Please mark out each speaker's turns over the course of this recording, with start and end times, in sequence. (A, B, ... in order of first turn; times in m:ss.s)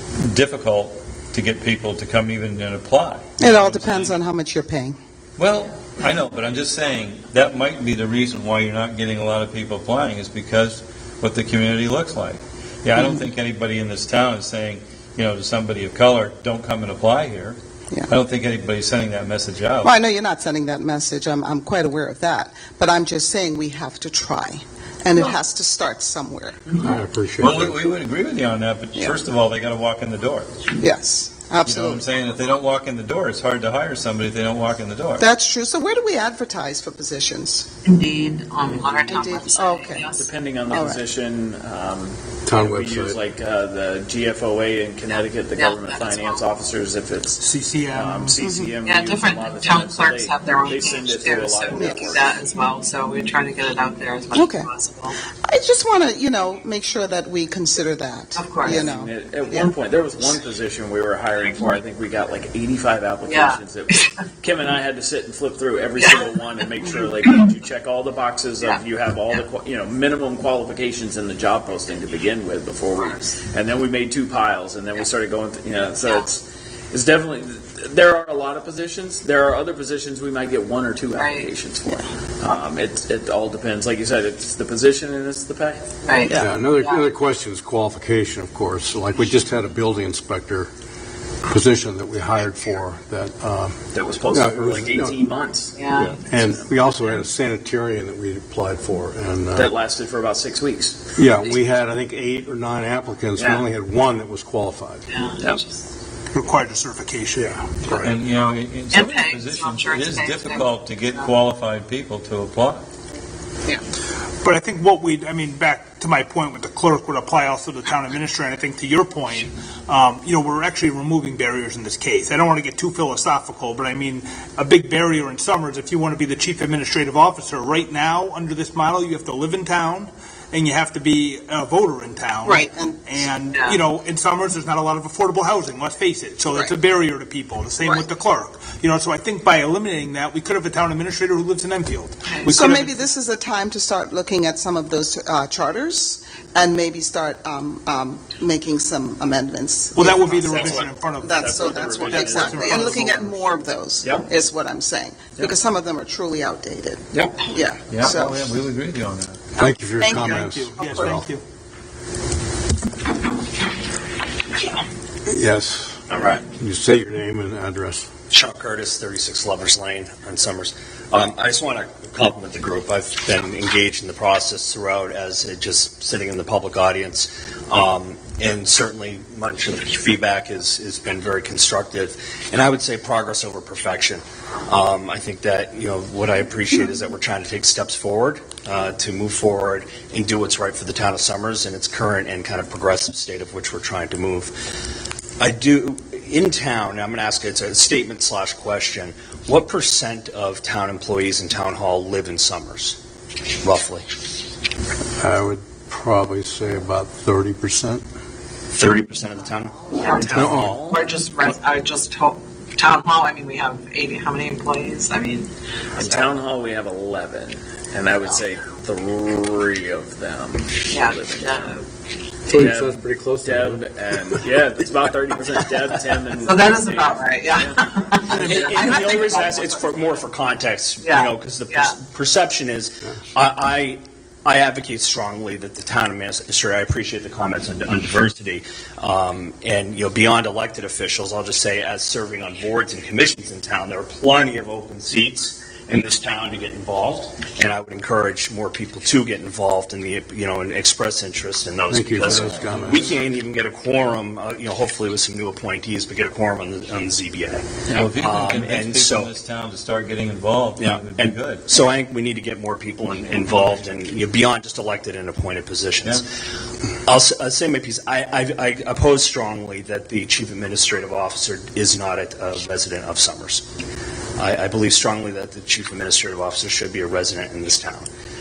0:00.2-0:04.2 A
0:03.4-0:05.0 B
0:05.4-0:17.6 A
0:18.1-0:19.9 A
0:19.8-0:26.6 B
0:26.8-0:27.8 C
0:27.4-0:30.5 A
0:30.8-0:32.0 B
0:31.6-0:35.3 A
0:35.2-0:37.7 B
0:37.8-0:40.3 D
0:38.6-0:39.2 E
0:39.1-0:40.0 B
0:40.2-0:52.3 E
0:40.7-0:41.0 B
0:42.4-0:43.2 C
0:45.5-0:46.5 D
0:47.4-0:48.4 F
0:48.4-0:48.7 B
0:48.8-0:55.2 D
0:51.7-0:52.2 B
0:54.3-0:54.6 B
0:55.4-0:59.7 B
0:58.3-0:58.9 D
0:58.7-1:26.0 E
1:03.2-1:03.6 D
1:21.1-1:21.5 D
1:26.0-1:26.9 D
1:26.3-1:30.7 C
1:31.4-1:35.2 C
1:33.9-1:34.8 G
1:34.1-1:36.7 E
1:35.7-1:36.2 D
1:36.0-1:39.7 C
1:39.5-1:41.0 E
1:41.2-1:45.0 C
1:45.1-1:45.8 D
1:46.3-1:47.5 F
1:47.4-1:48.1 C
1:47.9-1:52.8 A
1:48.9-1:51.2 D
1:54.4-2:23.0 F
2:12.4-2:13.0 B
2:13.4-2:13.8 D
2:22.2-2:22.6 D
2:22.5-2:38.5 B
2:29.9-2:33.3 F
2:30.2-2:32.8 G
2:37.9-2:39.4 A
2:39.6-2:41.2 C
2:40.0-2:41.1 B
2:40.0-2:41.4 F
2:45.2-2:48.0 C
2:46.1-2:46.4 G
2:48.3-3:14.7 G
3:15.4-3:23.0 G
3:23.6-3:24.1 G
3:25.2-3:28.0 C
3:28.7-3:31.0 G
3:30.1-3:35.5 D
3:30.3-3:30.8 C
3:36.0-3:41.8 E
3:36.0-3:36.3 D
3:40.9-3:41.8 D
3:42.4-3:44.4 C
3:42.5-3:49.2 E
3:46.4-3:49.9 D
3:48.3-3:48.9 F
3:48.4-4:19.3 G
3:51.0-3:51.9 D
4:11.9-4:13.2 C
4:12.2-4:13.1 A
4:17.9-4:21.6 A
4:20.8-4:26.2 G
4:27.0-4:33.6 G
4:34.4-4:38.1 G